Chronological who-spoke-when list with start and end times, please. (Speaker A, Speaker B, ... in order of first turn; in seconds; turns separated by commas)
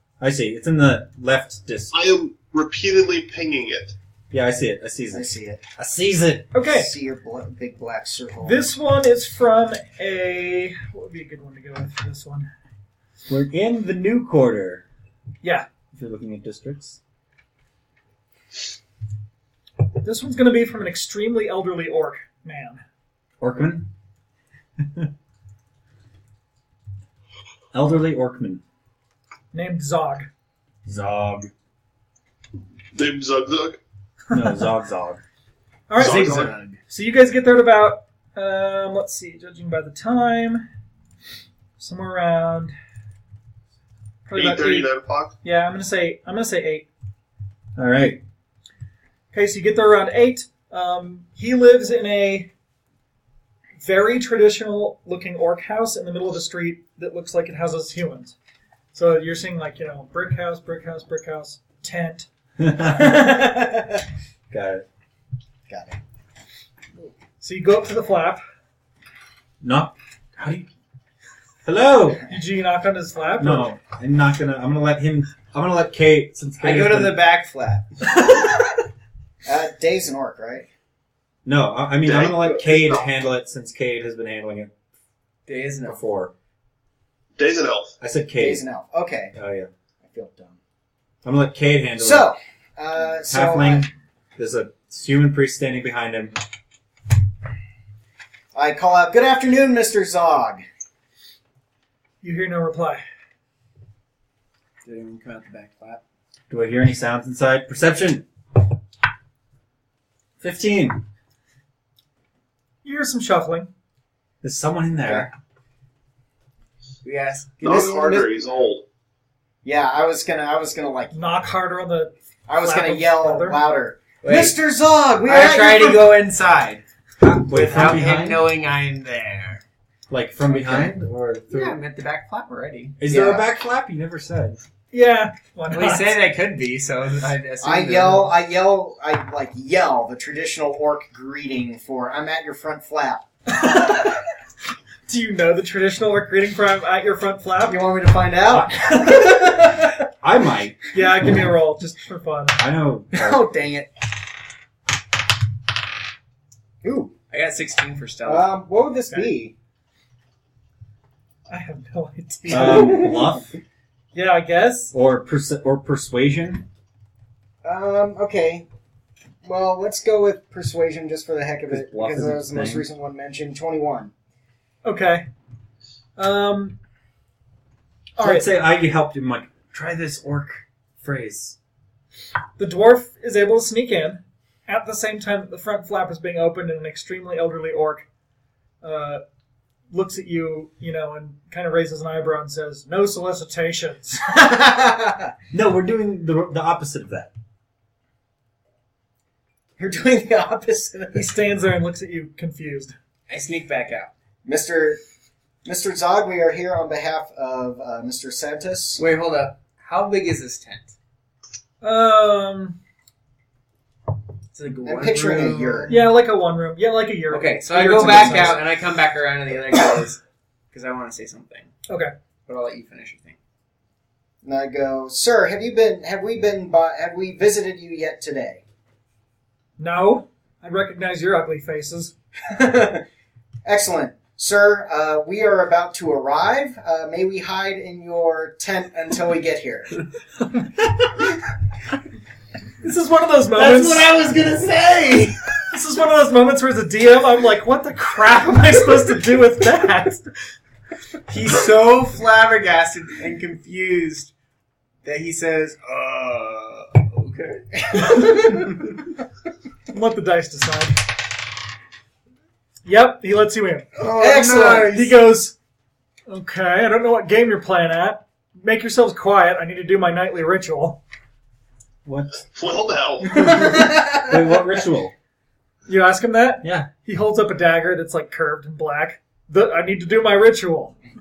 Speaker A: 0.2-1.9, Speaker B: 1.9-4.0, Speaker A: 4.3-6.5, Speaker C: 5.1-5.6, Speaker D: 6.5-6.9, Speaker C: 6.6-8.6, Speaker D: 8.4-12.5, Speaker A: 13.3-14.8, Speaker A: 15.9-17.0, Speaker D: 20.0-22.8, Speaker A: 23.4-23.9, Speaker A: 24.8-25.1, Speaker A: 27.7-28.6, Speaker D: 29.5-30.3, Speaker A: 30.9-31.5, Speaker B: 32.9-33.8, Speaker A: 34.3-35.2, Speaker D: 35.9-40.7, Speaker B: 36.0-36.6, Speaker E: 36.0-36.8, Speaker D: 41.8-42.7, Speaker D: 44.2-44.9, Speaker B: 44.3-45.3, Speaker D: 45.4-46.9, Speaker A: 47.8-48.2, Speaker D: 49.3-52.5, Speaker D: 53.8-58.3, Speaker D: 58.9-62.3, Speaker A: 62.6-63.5, Speaker D: 62.8-63.7, Speaker A: 64.5-64.8, Speaker C: 65.7-66.0, Speaker D: 67.4-68.4, Speaker A: 69.6-70.7, Speaker A: 71.6-72.2, Speaker D: 72.3-73.7, Speaker A: 73.4-77.2, Speaker E: 76.6-77.8, Speaker C: 79.4-80.7, Speaker A: 81.4-84.7, Speaker B: 82.0-83.0, Speaker E: 85.5-86.0, Speaker A: 85.8-86.3, Speaker B: 87.3-87.9, Speaker A: 88.0-88.6, Speaker C: 88.4-89.3, Speaker A: 89.3-89.7, Speaker C: 90.0-90.6, Speaker A: 91.2-92.3, Speaker C: 92.0-93.9, Speaker A: 93.3-96.4, Speaker C: 98.5-100.6, Speaker D: 102.2-103.0, Speaker E: 104.8-106.0, Speaker A: 106.5-108.2, Speaker A: 110.4-111.0, Speaker D: 112.8-113.7, Speaker A: 114.4-115.3, Speaker C: 115.0-115.3, Speaker E: 117.0-118.3, Speaker B: 117.6-118.8, Speaker C: 119.6-121.1, Speaker D: 121.1-123.6, Speaker C: 122.5-126.2, Speaker E: 124.2-124.6, Speaker E: 125.2-126.8, Speaker A: 127.2-128.4, Speaker E: 127.5-129.6, Speaker A: 130.1-131.8, Speaker C: 130.6-130.9, Speaker E: 131.5-133.4, Speaker A: 133.0-134.6, Speaker C: 133.1-133.4, Speaker D: 134.9-136.2, Speaker E: 135.7-138.3, Speaker C: 137.6-143.2, Speaker D: 143.5-144.2, Speaker D: 145.1-147.8, Speaker C: 147.7-150.0, Speaker A: 148.5-149.0, Speaker A: 150.2-150.9, Speaker D: 150.9-152.6, Speaker A: 152.6-153.5, Speaker C: 153.1-153.9, Speaker C: 156.8-157.1, Speaker E: 157.3-158.5, Speaker C: 158.2-159.5, Speaker D: 161.5-163.3, Speaker A: 162.5-163.5, Speaker C: 162.6-163.0, Speaker D: 164.1-164.9, Speaker A: 164.9-166.7, Speaker C: 167.6-168.7, Speaker C: 169.4-174.1, Speaker A: 171.7-172.8, Speaker D: 174.8-175.2, Speaker D: 176.2-176.8, Speaker D: 178.2-178.5, Speaker A: 178.2-181.6, Speaker D: 182.6-188.1, Speaker D: 188.8-189.2, Speaker D: 189.9-194.3, Speaker C: 194.3-195.3, Speaker A: 195.5-197.3, Speaker C: 199.8-201.3, Speaker D: 201.1-202.9, Speaker E: 203.3-204.1, Speaker C: 204.4-205.0, Speaker C: 205.6-209.0, Speaker E: 209.0-210.9, Speaker D: 211.8-212.8, Speaker E: 214.5-216.1, Speaker C: 214.8-215.9, Speaker D: 215.9-218.6, Speaker E: 217.3-220.2, Speaker C: 218.0-218.5, Speaker E: 220.7-221.7, Speaker D: 221.9-222.1, Speaker E: 222.5-223.3, Speaker C: 224.4-228.6, Speaker D: 229.8-232.1, Speaker C: 232.5-233.0, Speaker C: 233.6-240.0, Speaker D: 242.8-244.1, Speaker E: 243.6-245.6, Speaker D: 245.7-250.3, Speaker E: 251.3-254.3, Speaker E: 255.0-258.8, Speaker C: 258.0-258.3, Speaker D: 259.9-261.0, Speaker D: 262.8-264.0, Speaker E: 264.0-265.0, Speaker C: 264.0-265.1, Speaker D: 264.8-265.5, Speaker D: 266.3-271.0, Speaker A: 272.0-272.4, Speaker B: 272.5-273.6, Speaker C: 273.4-274.6, Speaker A: 273.4-275.1, Speaker D: 275.9-280.9, Speaker A: 276.6-276.9